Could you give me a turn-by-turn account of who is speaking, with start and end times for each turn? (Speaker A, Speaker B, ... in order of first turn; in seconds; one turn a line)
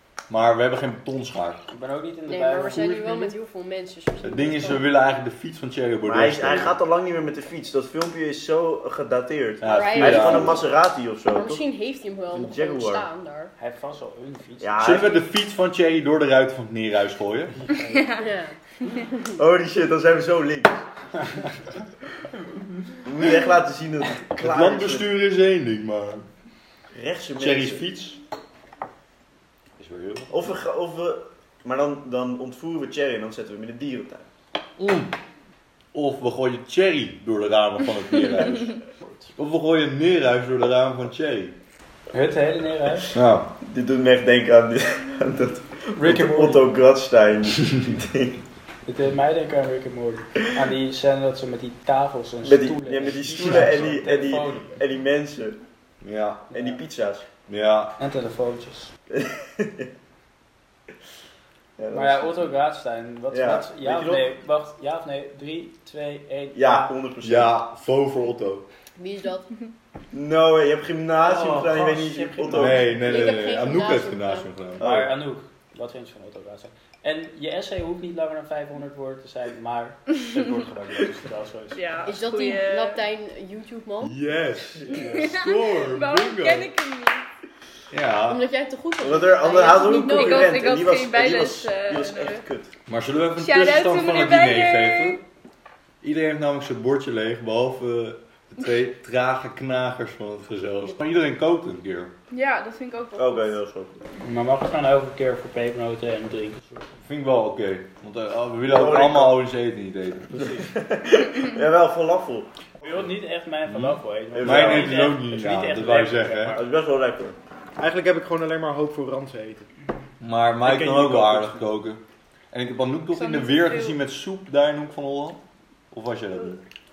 Speaker A: 0.3-1.6
Speaker B: 1.7-3.4
Speaker C: 2.3-4.9
Speaker A: 4.2-6.8
Speaker D: 6.0-11.6
Speaker A: 9.6-10.6
Speaker C: 9.7-10.7
Speaker C: 11.3-13.5
Speaker D: 12.3-13.1
Speaker B: 13.6-14.9
Speaker D: 14.6-15.2
Speaker A: 14.8-17.6
Speaker E: 17.9-18.2
Speaker C: 18.1-19.4
Speaker D: 19.4-20.8
Speaker D: 23.0-25.1
Speaker A: 24.4-26.3
Speaker D: 26.9-27.8
Speaker A: 27.4-28.2
Speaker A: 29.8-30.4
Speaker D: 30.3-34.3
Speaker A: 34.8-35.1
Speaker A: 35.9-38.8
Speaker B: 39.0-39.3
Speaker A: 39.4-41.6
Speaker B: 42.1-43.1
Speaker A: 43.1-43.5
Speaker D: 43.6-48.4
Speaker B: 45.9-46.7
Speaker B: 48.9-54.8
Speaker D: 52.4-55.6
Speaker A: 56.0-56.5
Speaker D: 56.5-57.3
Speaker A: 57.5-58.0
Speaker B: 58.0-58.9
Speaker D: 59.1-59.9
Speaker D: 61.8-62.5
Speaker B: 61.9-66.9
Speaker D: 63.3-64.3
Speaker D: 66.5-67.5
Speaker A: 67.2-68.7
Speaker C: 69.0-69.5
Speaker D: 70.1-73.1
Speaker B: 71.2-73.4
Speaker A: 72.5-74.8
Speaker C: 73.0-74.5
Speaker D: 74.8-75.1
Speaker B: 74.8-81.8
Speaker E: 81.7-83.0
Speaker C: 82.0-84.2
Speaker A: 84.0-86.7
Speaker E: 84.9-87.3
Speaker A: 87.9-88.4
Speaker C: 88.2-90.7
Speaker D: 89.0-92.7
Speaker E: 89.6-92.4
Speaker A: 92.9-95.2
Speaker E: 93.4-95.2
Speaker A: 96.0-102.1
Speaker E: 102.3-103.5
Speaker D: 103.2-104.0
Speaker B: 104.2-106.8
Speaker A: 107.0-110.4
Speaker D: 108.7-109.4
Speaker B: 110.3-110.7
Speaker D: 110.6-112.5
Speaker B: 112.8-116.7
Speaker A: 113.7-116.6
Speaker D: 114.3-115.1
Speaker D: 116.5-117.4
Speaker F: 117.8-119.7
Speaker A: 120.2-126.6
Speaker F: 120.6-121.7
Speaker E: 123.1-124.0